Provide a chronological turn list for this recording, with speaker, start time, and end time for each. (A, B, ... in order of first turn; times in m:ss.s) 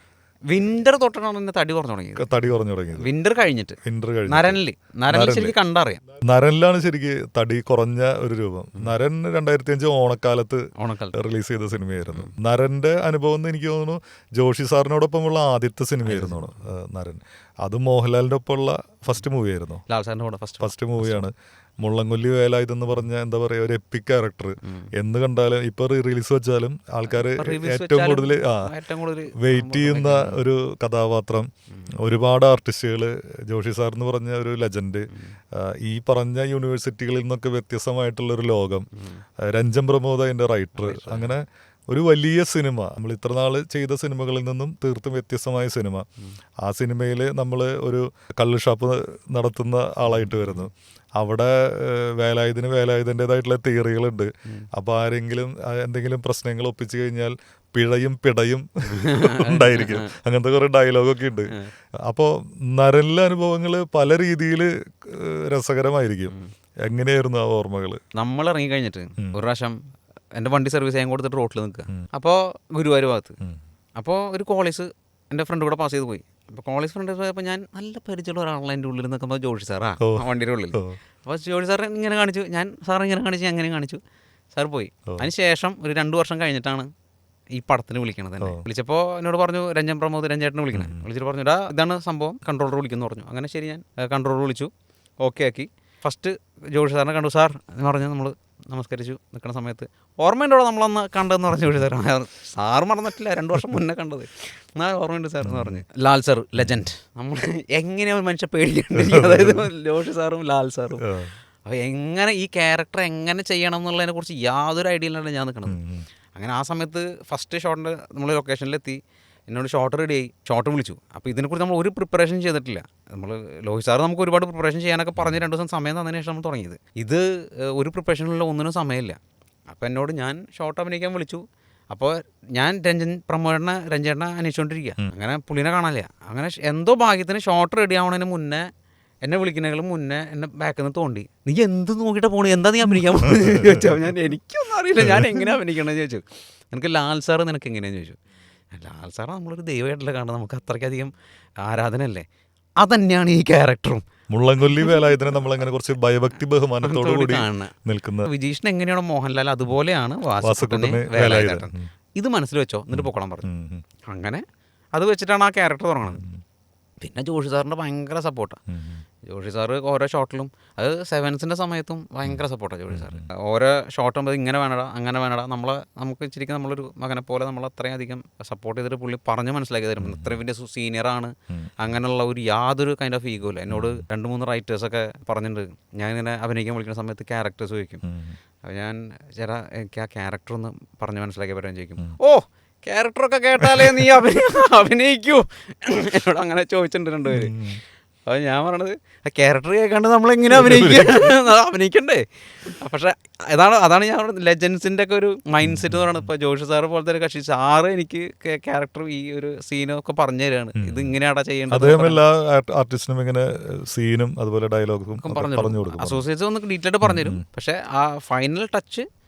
0:00.5-0:02.3 A
0:02.2-0:03.1 B
0:02.9-0:03.8 A
0:03.8-0:05.5 B
0:04.3-0:06.0 A
0:06.2-0:19.8 B
0:10.8-0:11.2 A
0:16.0-0:16.5 A
0:19.9-0:21.2 A
0:20.6-0:28.7 B
0:27.1-0:30.4 A
0:29.4-0:31.5 B
0:32.0-0:38.9 B
0:39.4-0:46.0 B
0:40.8-0:41.3 A
0:46.6-1:01.5 B
0:50.1-0:50.7 A
0:58.9-1:00.1 A
1:02.0-1:08.0 B
1:08.1-1:09.8 A
1:10.3-1:13.4 A
1:14.0-1:24.0 A
1:20.0-1:21.0 B
1:24.5-1:26.9 A
1:27.5-1:51.0 A
1:30.7-1:31.0 B
1:45.4-1:45.8 B
1:48.9-1:49.7 B
1:51.0-1:51.3 B
1:51.6-1:55.8 A
1:55.6-1:56.0 B
1:56.3-2:18.6 A
2:19.2-2:28.2 A
2:23.2-2:24.0 B
2:25.0-2:25.4 B
2:28.7-2:32.2 A
2:32.8-2:34.0 A
2:34.3-2:38.3 B
2:34.6-2:35.4 A
2:36.8-2:43.4 A
2:40.4-2:41.9 B
2:42.9-2:43.8 B
2:44.0-2:46.2 A
2:46.0-2:46.4 B
2:47.0-2:48.6 A
2:48.7-2:49.0 B
2:49.2-3:08.0 A
2:52.9-2:53.2 B
3:00.0-3:00.4 B
3:03.7-3:04.0 B
3:08.0-3:08.4 B
3:08.6-3:17.6 A
3:13.7-3:14.1 B
3:17.3-3:17.8 B
3:18.3-3:32.2 A
3:20.5-3:21.4 B
3:25.6-3:26.1 B
3:30.8-3:31.1 B
3:31.7-3:36.2 B
3:35.2-3:39.1 A
3:37.0-3:37.4 B